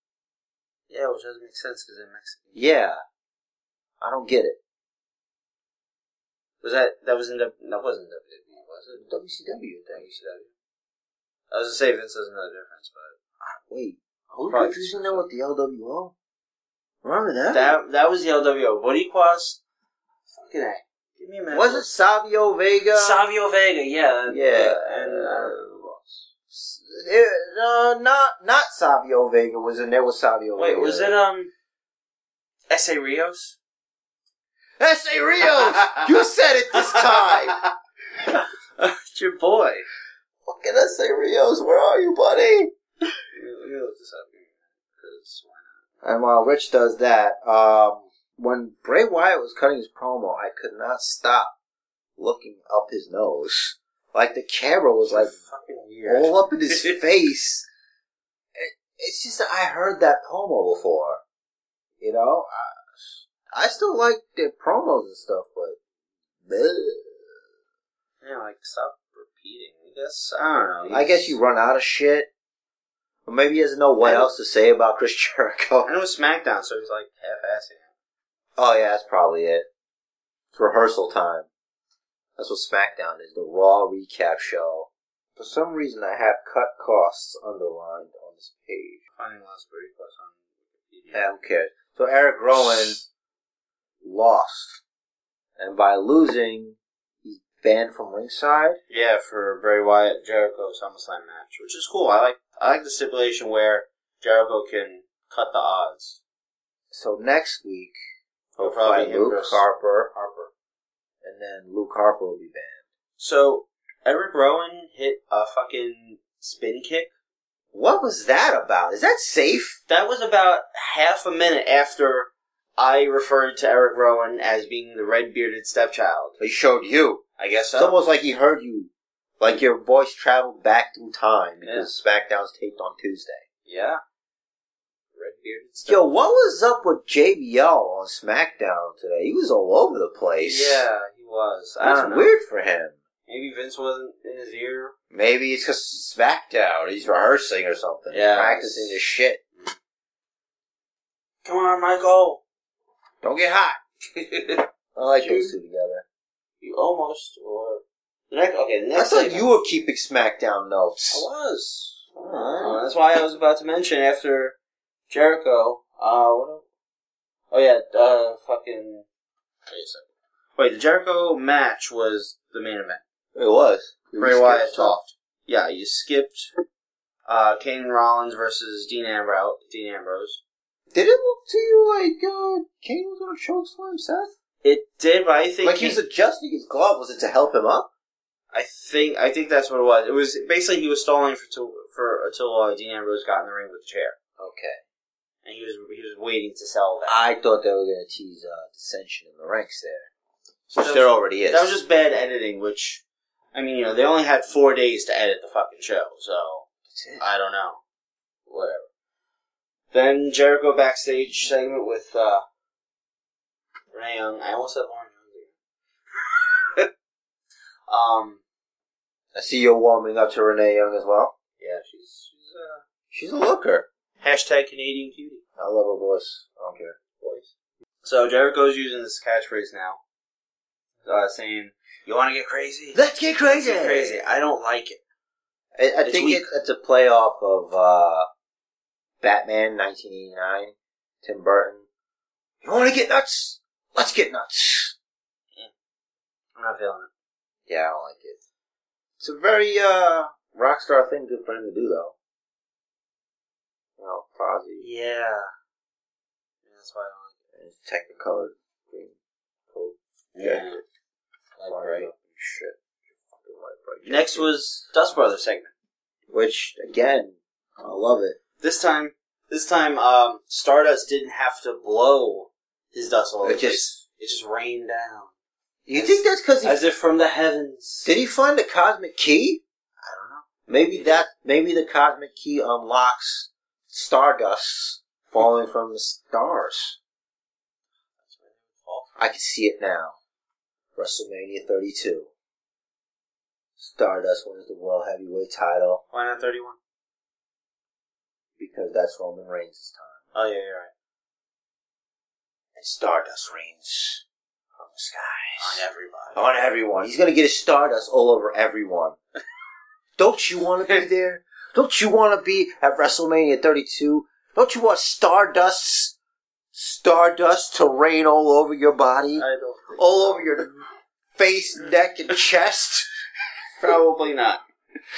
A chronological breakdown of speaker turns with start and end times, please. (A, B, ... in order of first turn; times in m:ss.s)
0:00.9-0:02.5 A
0:02.5-0:03.0 B
0:04.0-0:04.6 B
0:06.6-0:09.0 A
0:09.0-0:10.1 B
0:09.9-0:10.5 A
0:11.5-0:13.2 A
0:13.4-0:16.1 B
0:14.4-0:15.2 A
0:17.0-0:17.8 B
0:17.5-0:19.6 A
0:20.3-0:21.9 A
0:21.5-0:23.2 B
0:22.9-0:26.3 A
0:24.3-0:25.6 B
0:26.5-0:31.1 B
0:30.6-0:31.5 A
0:32.7-0:33.6 A
0:34.8-0:37.6 B
0:35.4-0:36.1 A
0:36.7-0:39.8 A
0:40.4-0:42.7 B
0:43.3-0:45.7 A
0:46.0-0:51.5 B
0:52.2-0:55.3 B
0:55.1-0:57.0 A
0:56.1-0:57.7 B
0:58.6-1:01.2 B
1:02.0-1:05.8 B
1:06.4-1:07.4 B
1:08.2-1:11.4 A
1:10.9-1:12.3 B
1:13.2-1:15.9 B
1:14.0-1:14.3 A
1:15.8-1:17.9 A
1:18.6-1:19.7 B
1:20.5-1:21.5 B
1:22.4-1:29.0 B
1:29.2-1:31.3 A
1:31.1-1:33.0 B
1:34.0-1:34.8 B
1:35.6-1:38.8 B
1:38.9-1:46.2 A
1:46.9-1:48.0 B
1:48.6-1:50.5 A
1:48.6-1:50.1 B
1:51.2-1:52.8 B
1:53.2-1:57.1 A
1:57.7-1:59.8 B
1:59.9-2:06.4 A
2:06.4-2:07.2 B
2:07.4-2:08.0 A
2:07.8-2:13.4 B
2:11.6-2:11.9 A
2:13.6-2:14.0 A
2:15.1-2:16.0 A
2:15.8-2:20.8 B
2:20.4-2:22.3 A
2:21.8-2:23.0 B
2:23.3-2:24.9 A
2:25.1-2:29.4 B
2:28.1-2:29.0 A
2:31.4-2:32.4 A
2:33.2-2:33.8 B
2:34.1-2:35.6 A
2:34.9-2:36.0 B
2:36.6-2:39.5 A
2:38.9-2:41.3 B
2:41.1-2:44.6 A
2:42.2-2:42.8 B
2:45.1-2:46.6 A
2:47.5-2:49.0 A
2:49.7-2:50.0 A
2:50.6-2:53.0 A
2:53.3-2:55.0 B
2:54.2-2:56.5 A
2:57.2-3:00.4 A
3:00.9-3:04.3 B
3:04.6-3:06.0 A
3:05.6-3:07.9 B
3:08.5-3:14.2 A
3:14.4-3:14.8 B
3:15.4-3:17.2 A
3:17.0-3:20.1 B
3:20.7-3:23.0 A
3:20.7-3:21.8 B
3:23.5-3:26.6 A
3:26.9-3:27.2 B
3:27.2-3:27.8 A
3:28.5-3:28.9 A
3:29.9-3:32.4 A
3:33.9-3:35.5 A
3:36.3-3:36.9 A
3:37.9-3:38.4 A
3:39.3-3:41.3 B
3:41.6-3:42.8 A
3:43.1-3:43.9 B
3:44.2-3:45.4 A
3:45.6-3:47.0 B
3:47.2-3:47.5 A
3:48.0-3:50.0 A
3:51.0-3:55.0 A
3:52.9-3:54.2 B
3:55.8-3:58.3 B
3:56.0-3:56.5 A
3:59.2-4:01.8 B
4:02.6-4:05.0 B
4:06.6-4:07.1 A
4:07.7-4:08.4 B
4:09.2-4:12.1 B
4:14.0-4:14.9 B
4:14.8-4:15.5 A
4:16.7-4:17.3 A
4:17.5-4:19.2 B
4:19.7-4:20.7 B
4:20.3-4:20.8 A
4:21.6-4:22.1 A
4:21.7-4:24.5 B
4:24.0-4:25.7 A
4:26.3-4:28.4 B
4:28.6-4:35.3 A
4:33.4-4:33.9 B
4:35.8-4:36.8 B
4:35.9-4:38.1 A
4:38.0-4:39.6 B
4:40.0-4:41.2 A
4:40.7-4:47.0 B
4:48.2-4:49.1 A
4:49.2-4:50.2 B
4:51.0-4:52.3 B
4:53.8-4:56.0 B
4:56.1-4:56.8 A
4:58.6-5:00.2 B
5:00.3-5:00.9 A
5:02.7-5:04.2 B
5:04.8-5:05.8 B
5:05.6-5:06.4 A
5:06.3-5:09.2 B
5:10.2-5:16.1 B
5:16.7-5:23.1 B
5:19.4-5:20.0 A
5:23.8-5:24.6 A